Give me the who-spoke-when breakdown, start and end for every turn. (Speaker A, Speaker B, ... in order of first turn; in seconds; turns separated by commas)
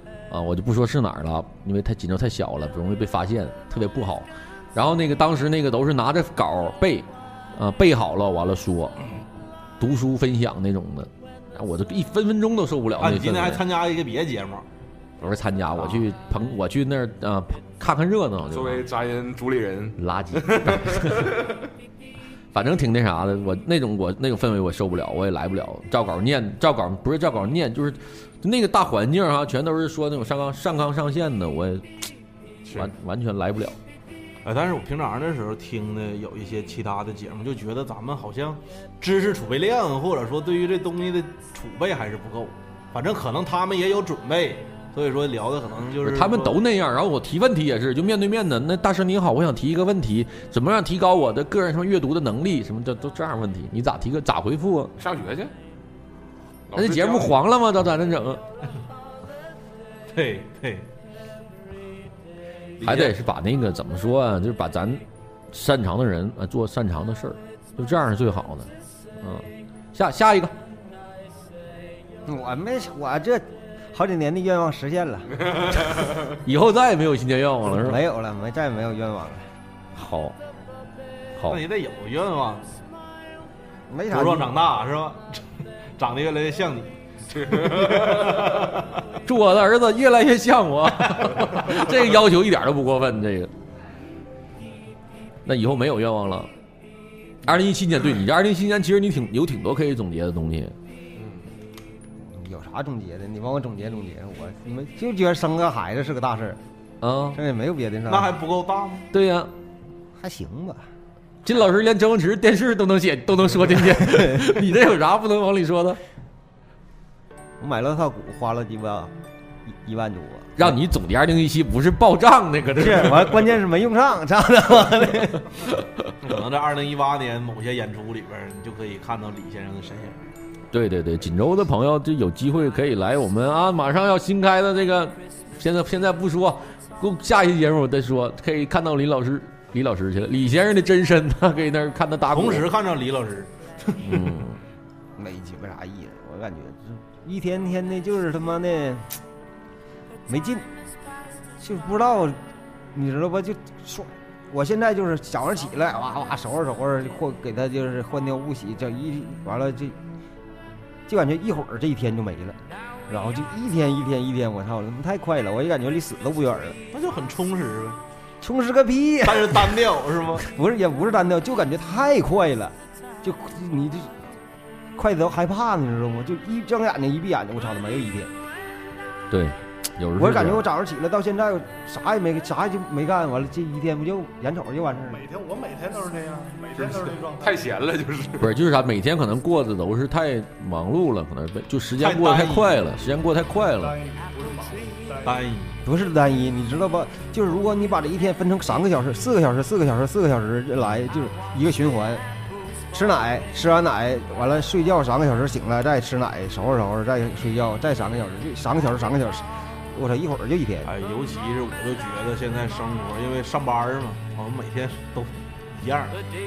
Speaker A: 0.3-9.1, Speaker A: 9.8-13.6, Speaker B: 13.0-14.7, Speaker A: 15.2-18.9, Speaker C: 18.5-21.7, Speaker A: 20.0-21.3, Speaker A: 22.5-32.1, Speaker B: 32.6-32.9, Speaker A: 32.8-33.8, Speaker B: 34.5-46.6, Speaker A: 46.0-54.9, Speaker C: 55.0-55.5, Speaker C: 56.7-57.4, Speaker A: 56.8-58.4, Speaker B: 60.1-60.9, Speaker B: 62.8-63.1, Speaker A: 62.8-70.5, Speaker D: 72.3-75.3, Speaker C: 75.5-76.1, Speaker A: 76.3-78.0, Speaker D: 77.7-79.5, Speaker A: 80.0-80.4, Speaker B: 81.5-82.7, Speaker D: 83.9-84.5, Speaker B: 84.1-85.5, Speaker B: 86.0-89.0, Speaker C: 87.5-88.4, Speaker A: 89.3-93.5, Speaker A: 95.5-96.5, Speaker A: 97.5-100.7, Speaker C: 101.2-101.5, Speaker D: 102.2-106.6, Speaker A: 107.0-107.4, Speaker D: 107.3-108.3, Speaker B: 108.1-109.1, Speaker A: 109.1-109.5, Speaker D: 110.2-110.9, Speaker A: 111.5-116.0, Speaker D: 114.0-114.5, Speaker D: 117.6-119.1, Speaker D: 119.7-120.8, Speaker A: 120.6-123.3, Speaker D: 122.8-125.5, Speaker B: 126.2-130.2, Speaker A: 130.7-142.7, Speaker B: 142.3-144.2, Speaker A: 144.0-144.6, Speaker D: 145.2-149.2, Speaker D: 150.3-150.7, Speaker D: 151.6-152.4, Speaker D: 152.9-160.0, Speaker D: 161.1-166.8, Speaker B: 166.9-168.0, Speaker D: 168.4-169.9, Speaker B: 169.2-170.4, Speaker D: 170.4-174.1, Speaker D: 174.9-178.3, Speaker A: 179.3-180.6, Speaker D: 180.2-185.2, Speaker E: 185.1-187.7, Speaker C: 186.8-188.5, Speaker A: 188.4-194.0, Speaker B: 192.0-192.9, Speaker E: 193.7-195.5, Speaker B: 195.2-195.8, Speaker D: 195.8-202.2, Speaker D: 202.9-210.9, Speaker B: 210.8-216.2